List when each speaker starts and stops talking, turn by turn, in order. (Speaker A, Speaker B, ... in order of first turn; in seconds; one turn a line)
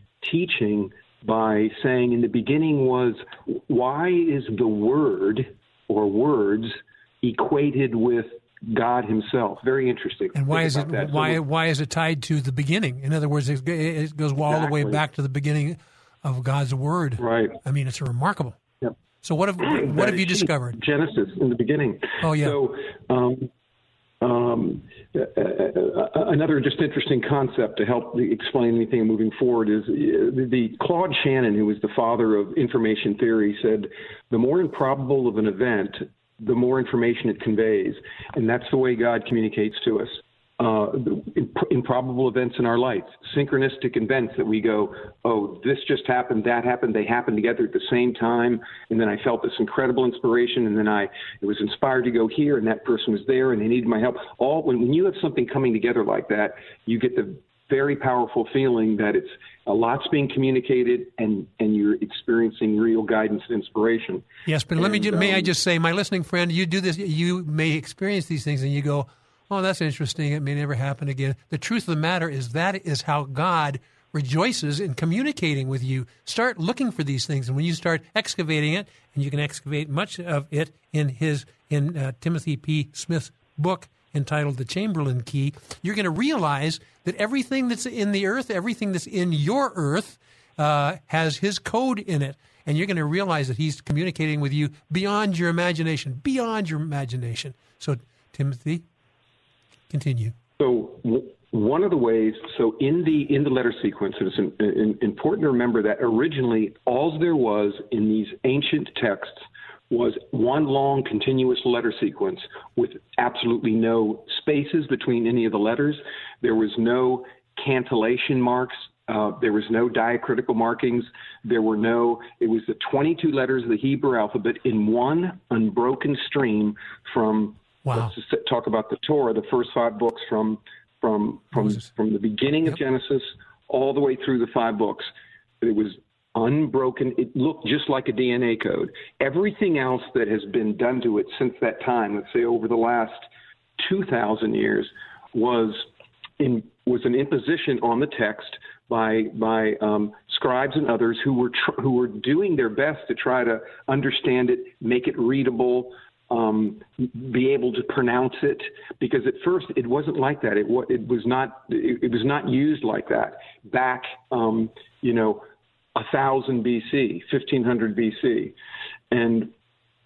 Speaker A: 0.2-11.4
Speaker B: 10.3-18.6
Speaker A: 14.5-15.0
Speaker A: 17.2-17.6
Speaker B: 19.2-20.8
Speaker A: 19.6-23.5
Speaker B: 22.2-22.6
Speaker A: 24.2-65.5
Speaker B: 64.5-98.8
Speaker B: 99.9-100.3
Speaker A: 100.6-135.1
Speaker B: 131.6-131.9
Speaker A: 135.6-143.2
Speaker A: 143.8-145.9
Speaker A: 146.4-165.4
Speaker A: 165.9-168.5
Speaker A: 169.1-169.5